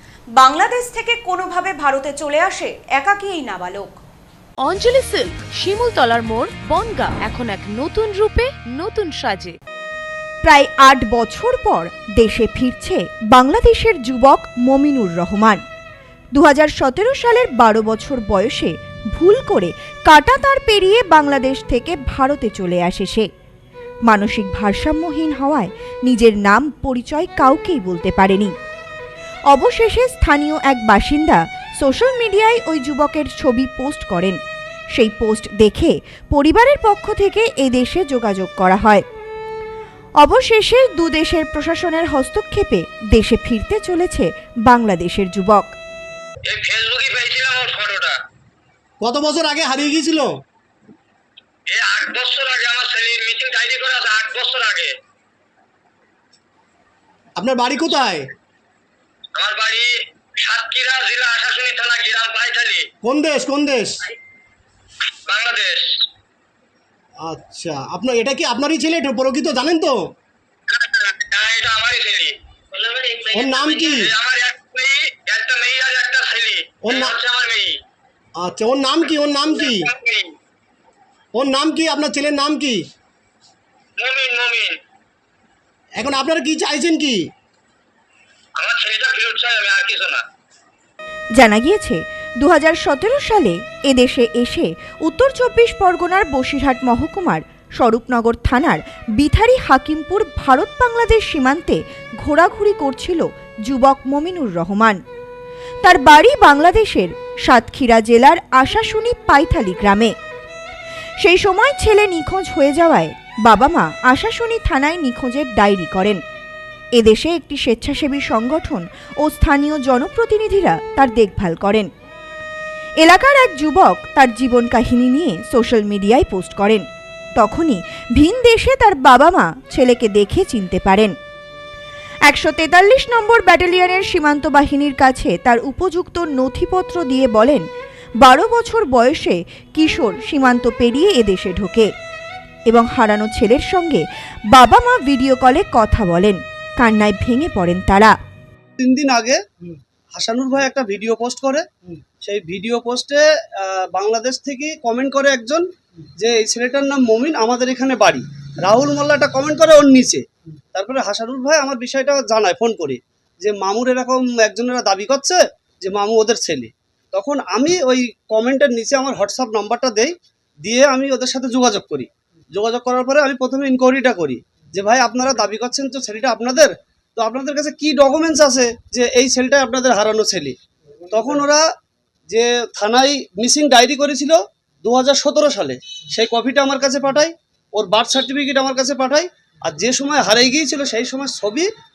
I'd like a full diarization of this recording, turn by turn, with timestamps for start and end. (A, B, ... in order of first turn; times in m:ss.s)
0:00.4-0:04.0 A
0:04.6-0:09.6 B
0:10.4-0:15.6 C
0:16.4-0:23.3 C
0:24.1-0:28.5 C
0:29.5-0:34.4 C
0:35.0-0:39.0 C
0:40.2-0:45.7 C
0:46.5-0:48.2 D
0:49.0-0:50.3 E
0:51.7-0:54.9 D
0:57.4-0:58.3 E
0:59.4-1:02.9 D
1:03.0-1:04.0 E
1:05.3-1:05.9 D
1:07.2-1:10.1 E
1:10.7-1:17.8 D
1:13.4-1:14.1 E
1:16.8-1:17.2 E
1:18.4-1:19.9 E
1:19.5-1:20.3 D
1:21.3-1:22.8 E
1:24.0-1:24.8 D
1:26.0-1:27.3 E
1:28.6-1:30.2 D
1:31.4-1:45.0 C
1:45.8-1:50.1 C
1:51.2-1:56.2 C
1:57.0-2:01.9 C
2:03.0-2:06.8 C
2:07.4-2:11.1 C
2:12.3-2:17.6 C
2:18.2-2:21.9 C
2:22.7-2:28.1 C
2:28.8-2:29.4 F
2:30.2-2:31.6 F
2:32.2-2:35.6 F
2:36.2-2:50.1 F
2:50.6-3:00.6 F
3:01.1-3:01.6 F
3:02.3-3:11.7 F